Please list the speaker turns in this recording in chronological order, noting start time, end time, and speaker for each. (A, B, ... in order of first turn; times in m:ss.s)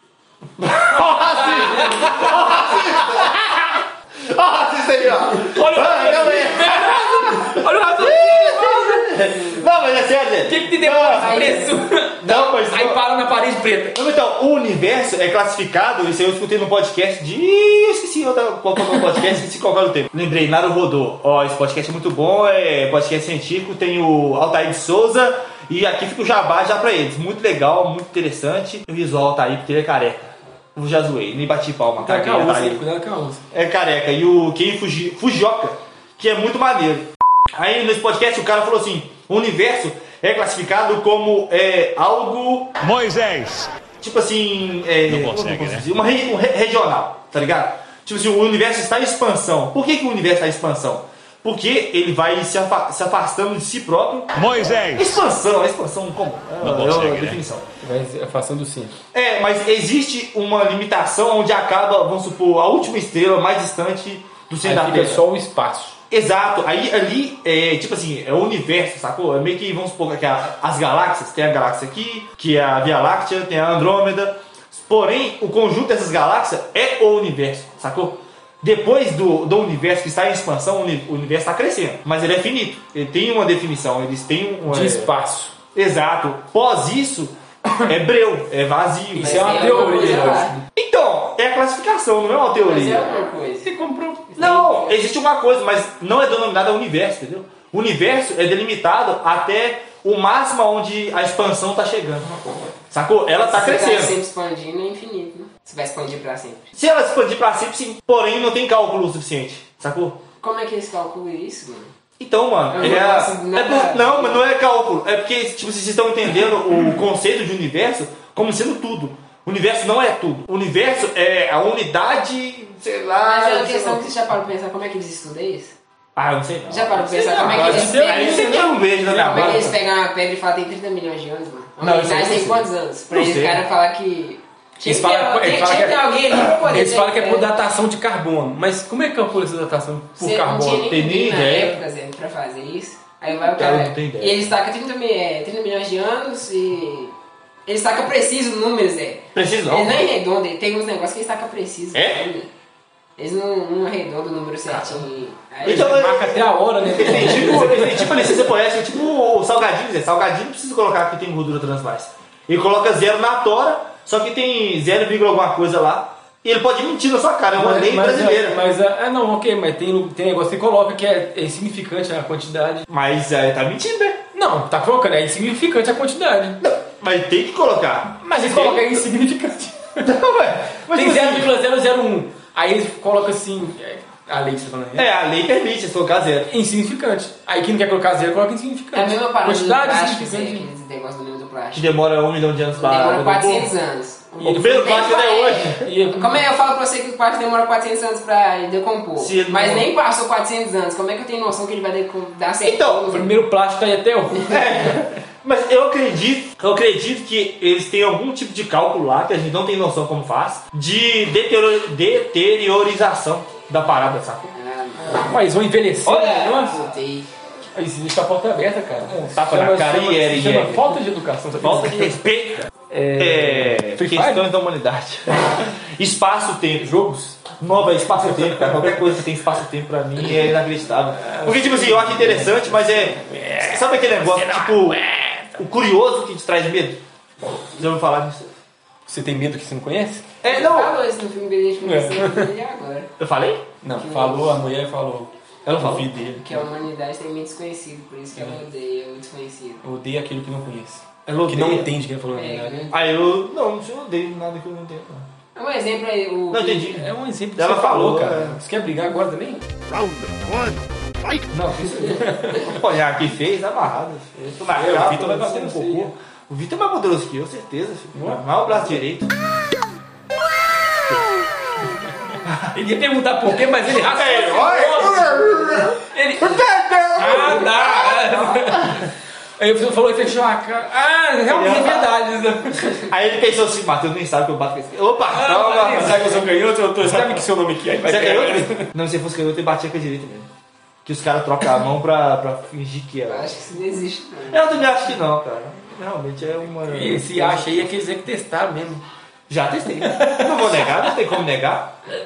0:00.6-0:11.6 A
0:01.2-0:02.5 B
0:05.3-0:09.2 B
0:10.5-0:14.0 B
0:11.1-0:11.7 C
0:12.2-0:13.0 A
0:13.9-0:32.8 A
0:32.0-0:33.4 B
0:33.5-0:42.8 A
0:42.8-0:43.7 D
0:44.0-0:54.3 A
0:45.1-0:45.8 D
0:54.3-0:55.1 D
0:54.9-0:57.6 A
0:56.6-0:57.4 D
0:57.8-0:58.9 B
0:59.1-1:05.2 A
1:04.6-1:06.0 B
1:06.1-1:25.1 A
1:24.7-1:25.5 B
1:25.7-1:33.1 A
1:29.1-1:30.6 B
1:29.2-1:30.5 C
1:32.6-1:33.6 C
1:33.6-1:34.6 B
1:34.4-1:42.4 A
1:34.4-1:35.0 C
1:42.9-1:44.2 A
1:43.3-1:46.7 C
1:46.7-1:50.2 A
1:50.4-1:51.9 C
1:52.2-2:04.1 A
1:52.7-1:54.4 C
2:03.2-2:05.7 C
2:06.2-2:09.8 A
2:06.7-2:17.5 C
2:07.2-2:08.7 B
2:11.8-2:13.6 A
2:14.8-2:20.9 B
2:20.2-2:27.1 C
2:20.8-2:21.8 A
2:23.3-2:24.4 A
2:27.6-2:32.5 C
2:29.3-2:30.0 A
2:31.9-2:32.2 A
2:33.2-2:36.3 C
2:35.6-2:38.4 B
2:35.6-2:48.6 A
2:47.5-2:52.8 B
2:52.9-2:54.2 A
2:54.3-2:56.6 B
2:56.6-2:59.0 A
2:58.2-3:00.1 B
3:00.0-3:01.5 A
3:00.9-3:05.1 B
3:05.0-3:06.5 A
3:06.5-3:10.7 B
3:08.9-3:11.9 C
3:11.7-3:13.7 A
3:12.8-3:23.3 C
3:14.4-3:15.0 B
3:14.5-3:15.9 A
3:15.8-3:16.4 B
3:19.2-3:19.9 A
3:22.6-3:23.0 A
3:23.1-3:24.9 B
3:24.4-3:34.5 A
3:34.5-3:35.3 C
3:35.1-3:36.9 B
3:36.0-3:37.3 C
3:37.7-3:42.1 B
3:39.0-3:40.9 A
3:41.6-3:46.9 A
3:42.9-3:44.5 B
3:46.8-3:47.4 B
3:47.6-3:55.0 A
3:51.2-3:55.6 B
3:55.5-3:57.0 A
3:57.7-3:58.5 A
3:59.1-4:00.3 B
4:00.4-4:01.0 A
4:00.4-4:03.1 C
4:01.8-4:02.5 B
4:03.2-4:03.6 A
4:03.8-4:06.6 B
4:04.0-4:04.5 C
4:05.6-4:06.1 A
4:06.4-4:09.8 C
4:08.3-4:08.6 B
4:09.8-4:12.9 B
4:11.2-4:11.9 A
4:12.3-4:12.9 C
4:12.9-4:15.3 A
4:15.5-4:17.0 C
4:16.5-4:18.6 A
4:16.9-4:19.6 B
4:19.9-4:21.4 D
4:21.5-4:22.7 B
4:21.7-4:29.3 A
4:24.7-4:26.1 B
4:28.1-4:29.0 B
4:32.7-4:36.6 B
4:33.9-4:39.0 A
4:37.1-4:43.0 B
4:41.5-4:42.1 A
4:43.1-4:46.4 A
4:45.3-4:48.9 B
4:47.0-4:47.4 A
4:48.0-4:50.5 A
4:51.0-4:53.5 A
4:53.3-4:54.7 C
4:54.5-4:57.9 A
4:56.9-4:59.0 B
4:59.5-5:02.0 A
5:00.0-5:00.8 B